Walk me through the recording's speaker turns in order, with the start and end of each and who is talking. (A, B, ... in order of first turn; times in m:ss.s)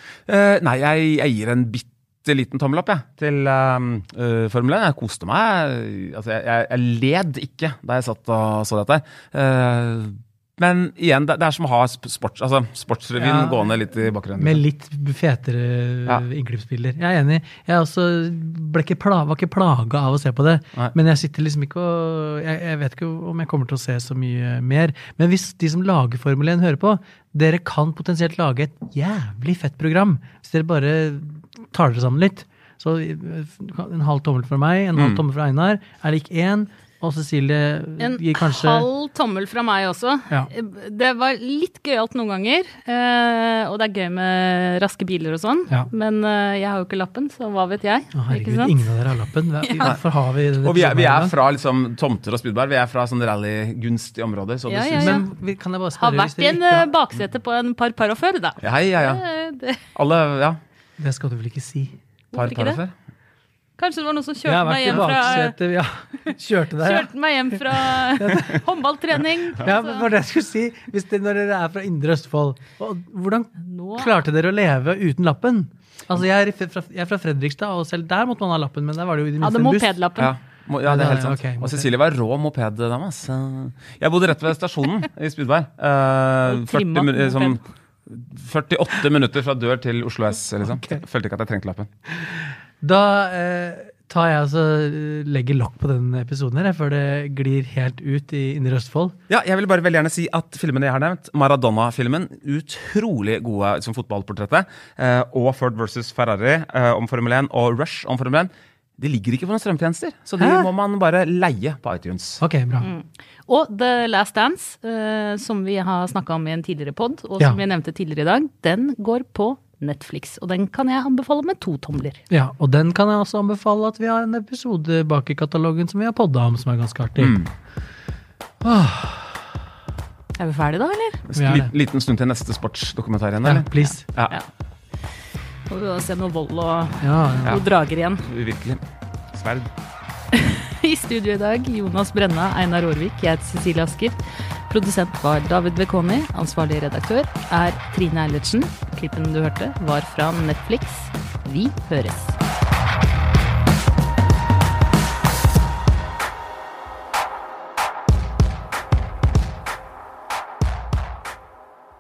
0:00.3-0:14.6 A
0:13.2-0:13.6 B
0:14.4-0:38.9 B
0:35.0-0:35.2 A
0:38.0-0:48.8 C
0:48.2-0:51.3 B
0:49.6-0:50.0 C
0:50.6-0:55.2 A
0:54.7-0:55.3 C
0:55.0-0:56.9 B
0:56.0-0:59.8 C
0:58.6-0:59.2 A
1:00.0-1:00.6 A
1:01.0-1:02.0 B
1:02.3-1:02.8 C
1:02.3-1:02.9 A
1:03.8-1:05.6 C
1:04.5-1:08.6 B
1:06.3-1:10.1 C
1:09.6-1:19.9 B
1:13.6-1:14.1 C
1:19.4-1:20.4 C
1:20.2-1:31.9 A
1:20.8-1:21.9 B
1:26.5-1:27.6 C
1:30.6-1:31.0 B
1:32.8-1:39.2 B
1:39.3-1:52.4 A
1:50.4-1:50.7 B
1:52.4-1:52.9 B
1:52.8-2:02.2 C
2:02.3-2:07.4 B
2:07.2-2:07.5 A
2:08.6-2:09.6 B
2:10.4-2:11.2 C
2:11.3-2:14.4 A
2:11.4-2:11.7 B
2:13.4-2:14.0 B
2:15.7-2:18.3 C
2:17.0-2:17.6 B
2:18.2-2:19.7 A
2:20.3-2:32.4 C